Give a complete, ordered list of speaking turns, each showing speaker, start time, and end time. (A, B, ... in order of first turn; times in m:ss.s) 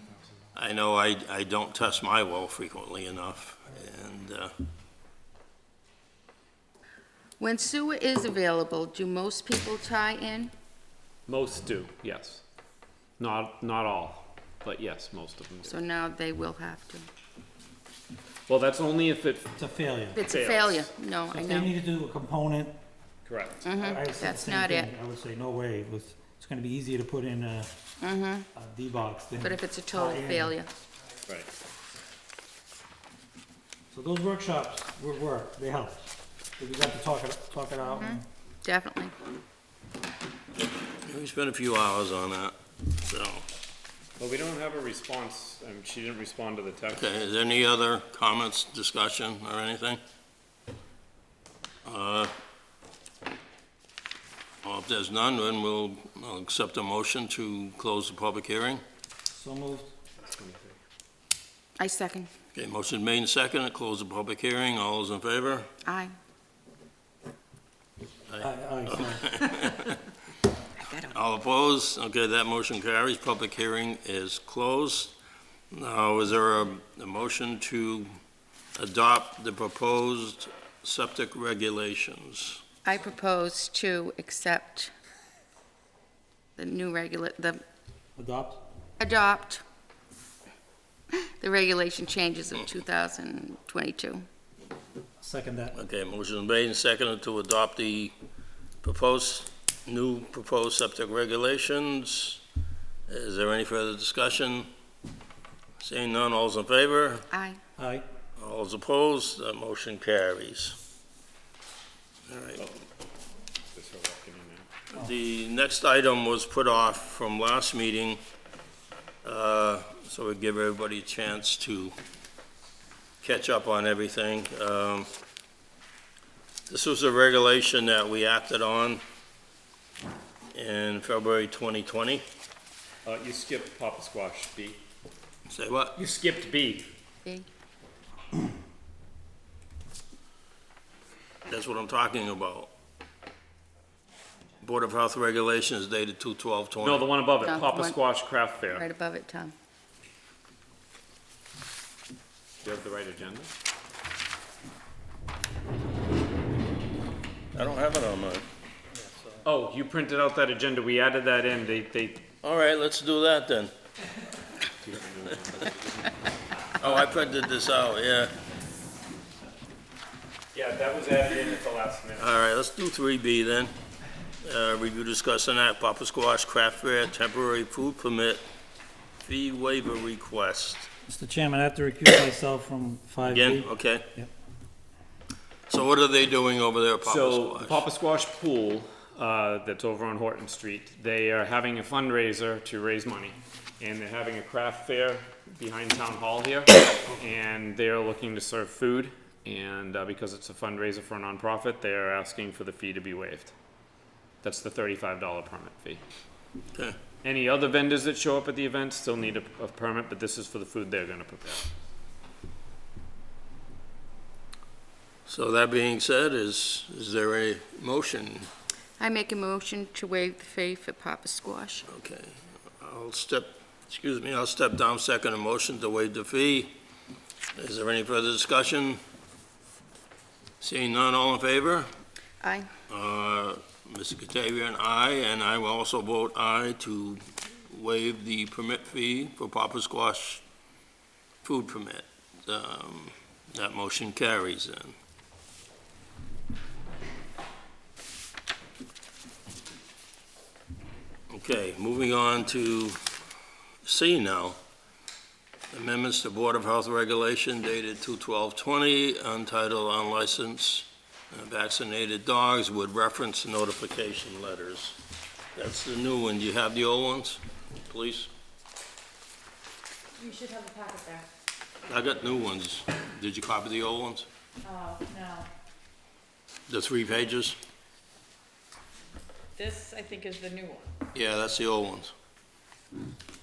0:00.5-0:04.5 A
0:07.4-0:10.5 B
0:11.3-0:12.4 C
0:13.2-0:15.7 C
0:15.6-0:17.1 B
0:18.5-0:19.5 C
0:19.6-0:20.2 D
0:20.1-0:21.7 B
0:20.2-0:20.9 C
0:21.3-0:22.7 D
0:23.2-0:23.7 C
0:23.6-0:24.9 B
0:23.7-0:27.7 D
0:28.0-0:28.5 B
0:28.5-0:30.6 D
0:29.4-0:30.7 B
0:33.9-0:38.2 D
0:37.8-0:39.1 B
0:41.0-0:43.4 A
0:44.2-0:47.1 C
0:46.9-0:50.0 A
0:51.8-0:52.3 A
0:54.6-0:58.8 A
0:59.3-0:59.9 D
1:00.2-1:00.8 C
1:01.8-1:02.3 B
1:02.5-1:05.7 A
1:05.8-1:06.1 B
1:08.3-1:10.0 A
1:08.4-1:09.4 D
1:10.8-1:11.1 B
1:11.1-1:15.1 A
1:15.7-1:18.1 A
1:18.8-1:22.6 A
1:22.8-1:24.9 B
1:26.6-1:27.6 B
1:28.2-1:28.6 D
1:29.0-1:29.6 B
1:31.1-1:34.2 B
1:35.2-1:35.8 D
1:35.7-1:38.1 A
1:38.8-1:42.4 A
1:43.1-1:44.7 A
1:45.8-1:47.3 A
1:47.3-1:47.6 B
1:47.8-1:48.0 D
1:48.4-1:50.8 A
1:52.3-1:52.6 A
1:53.7-1:54.7 C
1:54.9-1:58.2 A
1:59.2-2:01.9 A
2:03.2-2:05.1 A
2:06.7-2:09.0 A
2:10.5-2:12.2 A
2:13.0-2:14.8 C
2:15.5-2:16.0 A
2:16.0-2:16.9 C
2:21.4-2:22.7 A
2:24.6-2:27.0 A
2:26.8-2:28.8 C
2:27.4-2:28.0 B
2:28.7-2:29.5 B
2:32.6-2:33.5 C
2:37.5-2:38.4 A
2:38.9-2:39.4 D
2:39.4-2:42.2 C
2:42.4-2:43.7 A
2:44.8-2:46.3 C
2:46.8-2:48.3 A
2:50.5-2:52.3 C
2:52.2-2:53.7 A
2:54.4-2:58.4 A
2:59.2-3:00.9 A
3:01.0-3:04.3 D
3:03.3-3:04.1 A
3:05.7-3:07.8 A
3:07.0-3:23.5 C
3:24.4-3:26.0 C
3:27.2-3:31.7 C
3:35.3-3:38.5 A
3:39.0-3:41.8 B
3:41.9-3:46.8 A
3:47.6-3:49.0 A
3:50.6-3:51.9 A
3:52.4-3:52.7 B
3:52.9-4:00.4 A
4:01.4-4:05.0 A
4:11.3-4:13.0 A
4:13.8-4:14.6 A
4:15.7-4:25.0 A
4:25.6-4:28.3 A
4:30.2-4:31.3 E
4:31.8-4:34.3 A
4:34.6-4:35.5 E
4:36.7-4:37.6 A
4:39.6-4:40.9 E
4:41.1-4:42.1 A